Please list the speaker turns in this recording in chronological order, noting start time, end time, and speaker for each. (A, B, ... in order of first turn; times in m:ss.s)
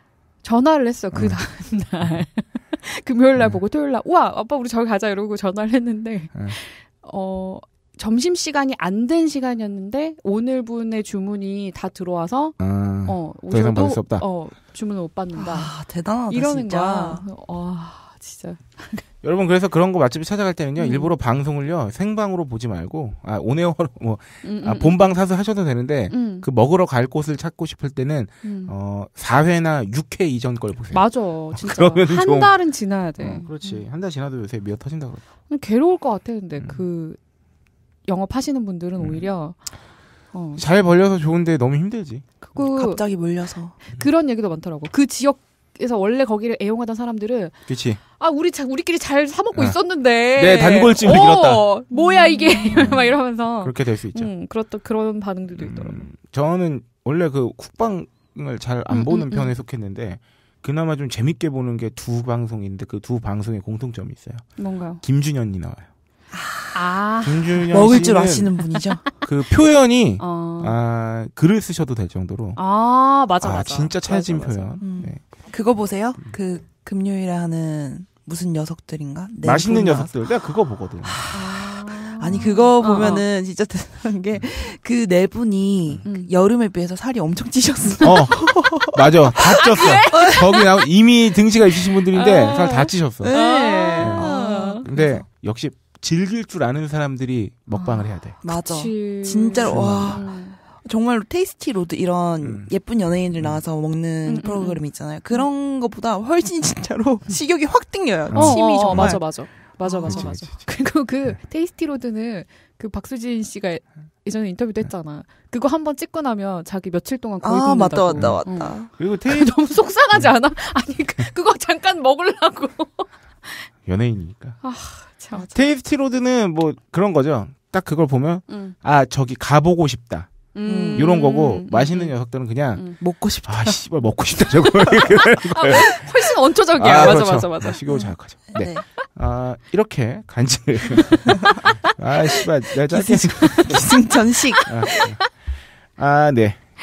0:00.4-0:15.7 A
0:01.1-0:01.4 B
0:12.6-0:14.2 B
0:15.4-0:17.2 C
0:16.3-0:19.0 A
0:19.2-0:32.5 B
0:20.8-0:21.1 A
0:24.4-0:25.0 A
0:26.1-0:26.5 A
0:28.4-0:28.7 A
0:30.9-0:33.8 A
0:33.2-0:35.2 B
0:35.5-0:37.2 A
0:38.1-0:39.6 A
0:39.0-0:39.2 B
0:40.3-0:40.7 A
0:40.6-0:42.5 B
0:42.5-0:43.0 A
0:42.6-0:43.8 C
0:43.9-0:47.6 A
0:47.7-0:48.0 B
0:48.2-0:56.0 A
0:50.4-0:51.6 B
0:51.9-0:53.0 C
0:52.7-0:53.1 B
0:53.6-0:54.3 B
0:55.6-1:04.4 B
0:58.9-0:59.5 A
1:04.6-1:05.0 A
1:05.0-1:05.9 B
1:06.3-1:07.0 C
1:06.7-1:07.7 A
1:07.2-1:08.5 B
1:07.7-1:09.0 C
1:09.2-1:12.6 B
1:10.2-1:10.8 A
1:12.6-1:14.8 A
1:13.4-1:15.2 B
1:14.8-1:20.1 C
1:19.4-1:21.2 B
1:21.1-1:21.5 C
1:21.3-1:23.2 A
1:22.2-1:29.0 C
1:26.1-1:26.3 A
1:28.0-1:33.3 B
1:29.8-1:30.7 A
1:30.1-1:30.5 C
1:32.1-1:34.8 A
1:33.2-1:35.2 C
1:34.0-1:34.3 B
1:34.8-1:38.4 B
1:37.7-1:40.6 A
1:38.4-1:50.3 C
1:39.6-1:40.2 B
1:42.4-1:42.7 B
1:44.3-1:45.4 A
1:48.3-1:49.2 B
1:48.3-2:03.7 A
1:50.0-1:50.6 B
1:57.4-1:58.9 C
1:58.2-1:58.4 B
1:59.0-1:59.5 B
2:03.9-2:04.6 B
2:04.6-2:05.5 A
2:05.4-2:05.6 C
2:05.5-2:10.3 B
2:08.5-2:08.8 A
2:10.5-2:12.1 A
2:10.6-2:11.1 C
2:11.0-2:12.8 B
2:13.0-2:13.7 C
2:13.5-2:16.0 B
2:15.6-2:17.8 A
2:16.8-2:21.4 B
2:17.9-2:18.8 C
2:21.9-2:23.9 B
2:22.9-2:24.7 C
2:24.7-2:25.2 B
2:26.0-2:26.7 B